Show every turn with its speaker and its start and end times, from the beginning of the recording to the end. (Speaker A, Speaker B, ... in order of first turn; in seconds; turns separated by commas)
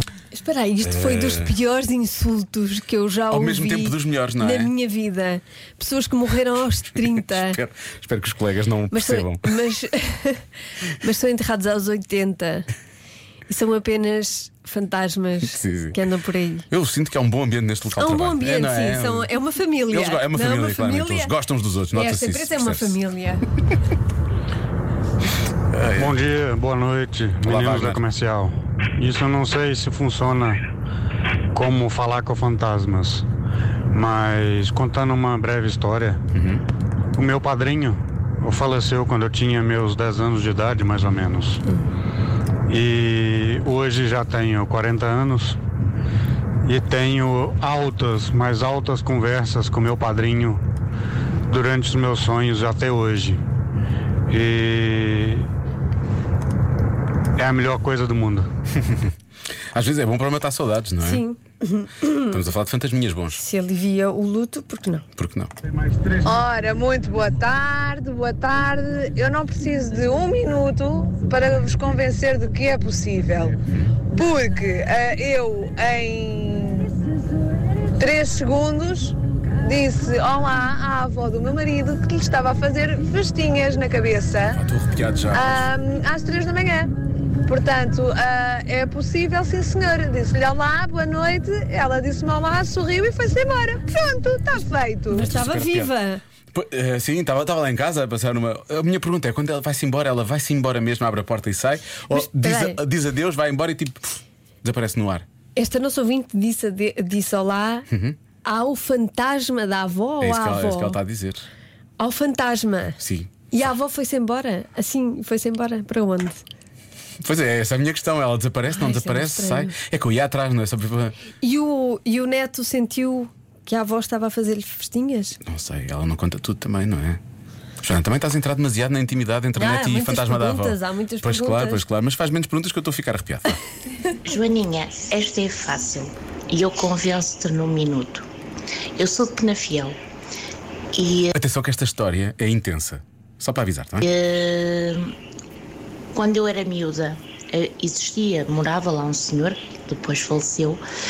Speaker A: 0.3-7.6, Speaker B: 0.8-1.6, Speaker B: 3.3-4.7, Speaker B: 7.2-9.5, Speaker A: 8.9-10.4, Speaker A: 11.0-12.7, Speaker A: 13.5-16.7, Speaker B: 15.4-16.0, Speaker B: 16.7-19.3, Speaker A: 18.0-21.3, Speaker B: 19.9-23.0, Speaker A: 21.9-23.4, Speaker B: 25.7-26.2, Speaker C: 25.9-30.6, Speaker B: 27.4-28.0, Speaker C: 31.5-33.2, Speaker C: 33.9-36.2, Speaker B: 36.3-36.6, Speaker C: 37.1-41.6, Speaker C: 42.7-45.6, Speaker C: 46.6-50.6, Speaker C: 51.5-53.4, Speaker C: 54.3-55.5, Speaker C: 57.3-58.5, Speaker B: 59.7-61.2, Speaker A: 61.0-62.3, Speaker B: 62.3-63.4, Speaker A: 63.3-65.0, Speaker B: 65.2-65.5, Speaker D: 66.2-73.5, Speaker D: 74.1-77.0, Speaker D: 78.0-84.6, Speaker B: 84.5-85.7, Speaker D: 85.3-86.9, Speaker D: 87.5-95.2, Speaker A: 95.1-96.2, Speaker B: 95.2-95.9, Speaker B: 96.5-105.2, Speaker A: 102.1-102.8, Speaker A: 105.5-107.9, Speaker B: 107.9-108.2, Speaker A: 108.4-111.0, Speaker B: 110.2-111.4, Speaker A: 112.0-113.0, Speaker B: 113.0-113.3, Speaker A: 113.5-116.4, Speaker B: 117.2-121.1, Speaker A: 118.7-119.7, Speaker A: 121.4-125.4, Speaker B: 125.5-127.2, Speaker B: 127.8-133.6, Speaker A: 129.5-131.8, Speaker E: 134.2-138.2, Speaker E: 139.0-140.0, Speaker E: 140.9-141.3, Speaker B: 141.3-144.1, Speaker E: 144.0-145.1, Speaker E: 146.1-150.8